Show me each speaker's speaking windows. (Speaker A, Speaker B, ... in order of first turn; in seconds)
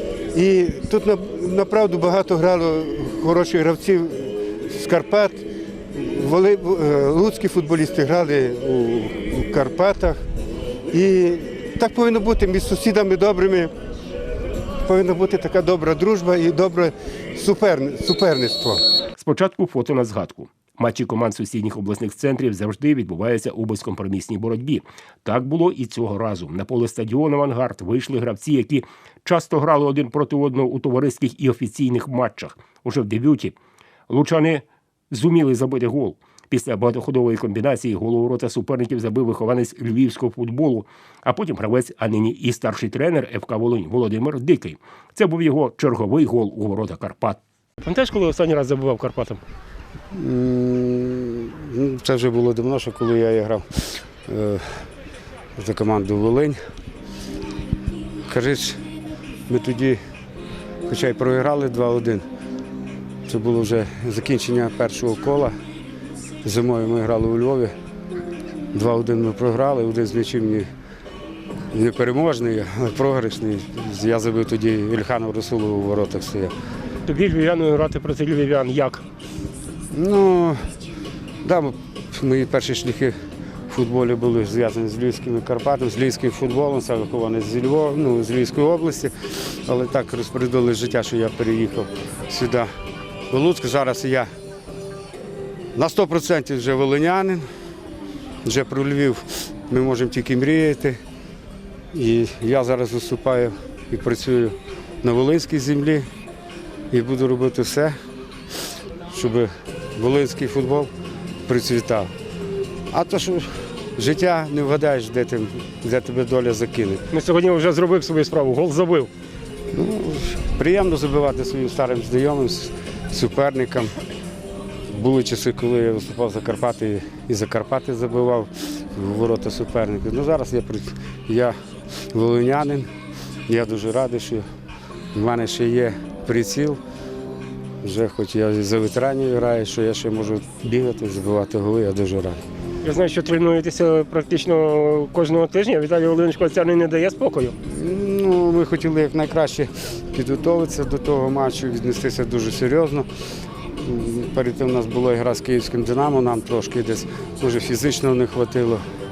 Speaker A: 0.3-10.2, 10.9-13.7, 14.8-18.8
Speaker B: 19.2-33.5, 34.1-49.4, 77.0-79.0, 117.1-119.1, 142.8-147.6
Speaker C: 50.1-54.9, 55.6-56.6, 58.3-58.8, 59.5-60.0, 60.9-62.2, 63.2-65.5, 66.4-67.7, 68.7-70.7, 71.7-76.5, 79.9-80.6, 81.4-83.1, 83.7-89.1, 89.6-92.7, 93.3-94.3, 95.7-97.4, 98.4-101.0, 101.9-106.1, 106.9-108.0, 109.1-110.9, 111.5-112.1, 112.9-117.0, 119.7-123.9, 124.9-131.6, 132.1-132.9, 133.5-134.4, 135.1-136.8, 137.8-142.4, 147.6-153.1, 153.8-158.8